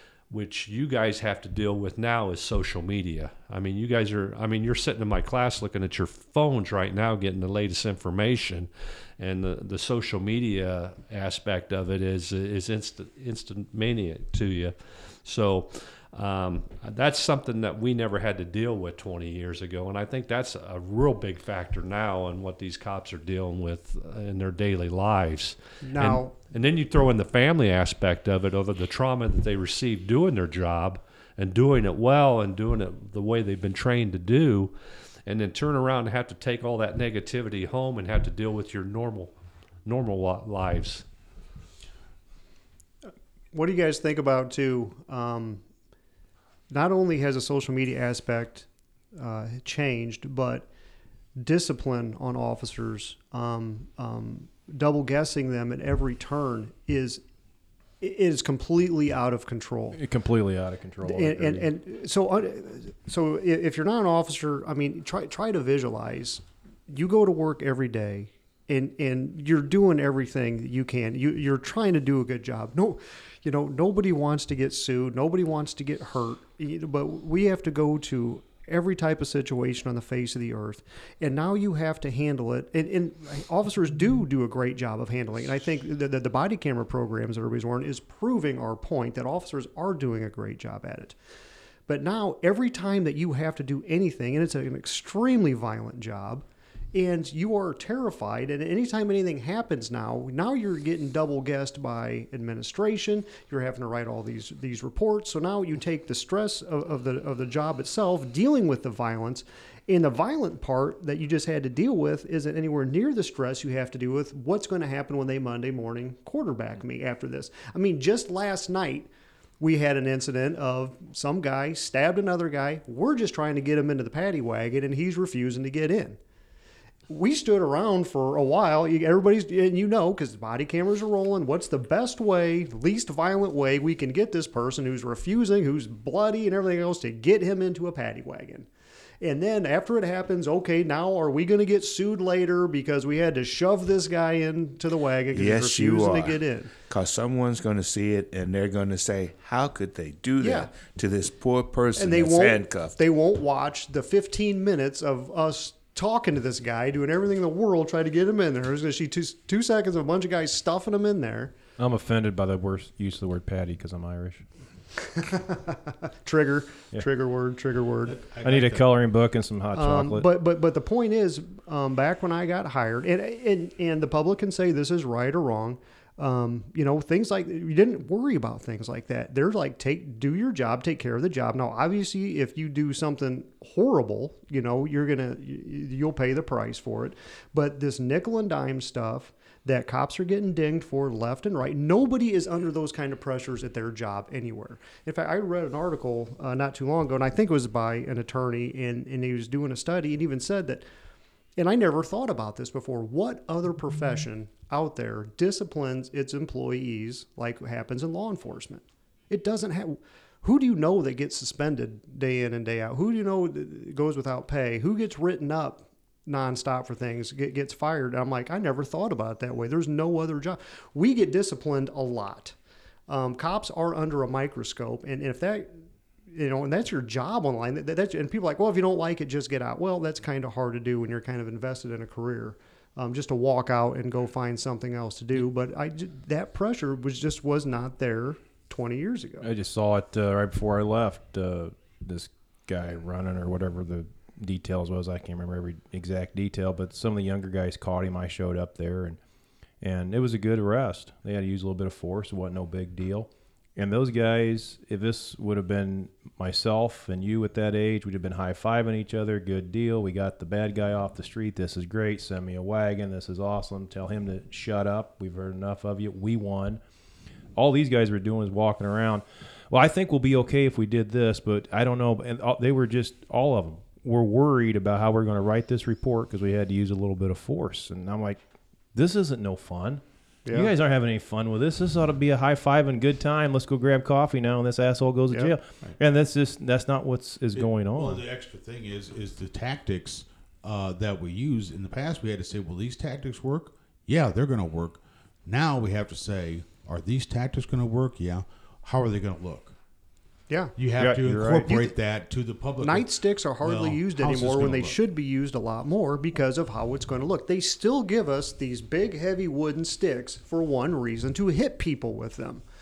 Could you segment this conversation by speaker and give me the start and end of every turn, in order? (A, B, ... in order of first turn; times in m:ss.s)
0:00.3-0:34.7 A
0:25.8-0:26.3 B
0:35.3-0:39.3 A
0:39.9-0:41.1 A
0:43.5-0:45.6 B
0:46.7-0:50.7 B
0:51.4-0:57.2 B
0:58.0-1:00.0 B
0:59.9-1:01.7 C
1:01.0-1:31.2 B
1:31.9-1:59.1 B
1:59.6-2:06.2 B
2:07.1-2:18.7 B
2:19.2-2:26.7 B
2:25.3-2:33.0 D
2:30.4-2:30.7 B
2:32.0-2:41.5 B
2:41.8-2:44.5 C
2:45.1-2:48.2 B
2:48.1-2:48.9 E
2:48.4-2:50.3 C
2:49.8-3:20.8 B
3:21.6-3:42.6 B
3:43.1-3:45.7 B
3:46.3-3:59.5 B
3:59.4-4:09.2 C
4:09.8-4:26.8 C
4:27.6-4:38.4 C
4:38.9-4:48.2 C
4:40.5-4:40.7 B
4:47.5-4:59.8 E
5:00.8-5:05.0 E
5:01.0-5:01.7 C
5:01.7-5:01.9 B
5:02.8-5:12.6 B